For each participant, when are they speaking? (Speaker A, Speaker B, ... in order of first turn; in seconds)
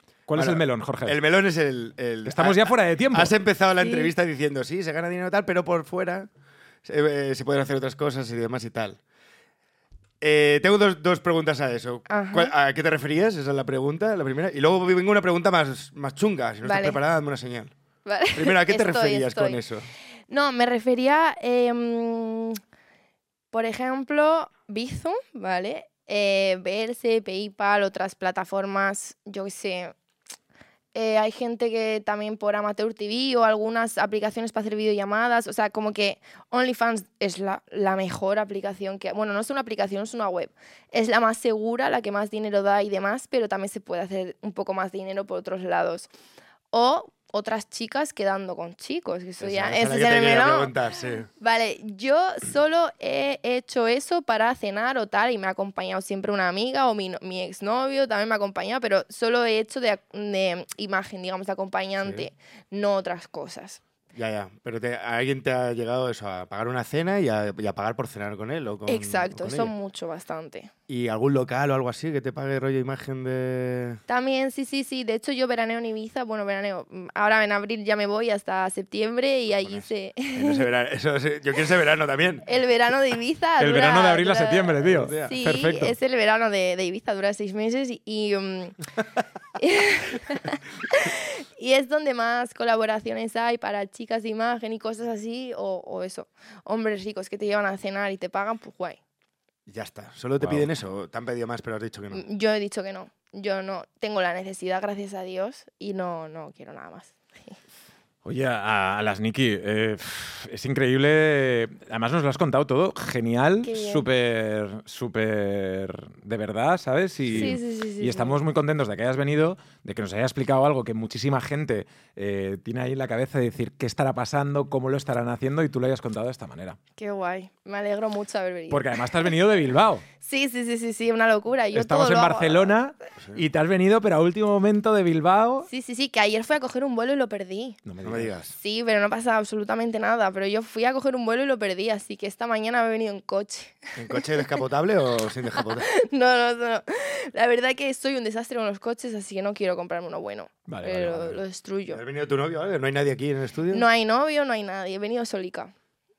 Speaker A: 0.3-1.2, 2.2-3.3, 83.6-86.0, 100.4-100.7, 108.2-126.8, 128.7-130.1, 131.7-135.7, 137.8-138.3, 150.7-151.4
Speaker B: 0.3-6.3, 6.8-9.0, 10.2-17.7, 18.3-19.8, 49.4-51.3, 64.1-69.7, 70.9-74.0, 79.6-82.4, 84.8-85.4, 99.7-102.2, 117.3-117.6, 138.0-138.5, 143.9-145.9, 151.9-153.8
Speaker C: 3.8-4.1, 12.1-12.5, 16.6-17.0, 18.0-19.6, 20.3-22.6, 23.5-29.9, 30.9-46.1, 46.7-50.7, 51.4-63.8, 68.9-70.7, 74.1-80.7, 82.4-88.8, 89.6-99.0, 102.1-107.6, 113.6-114.0, 117.3-118.4, 127.0-129.2, 130.2-132.7, 135.7-137.8, 138.6-144.5, 145.5-152.0, 153.7-155.7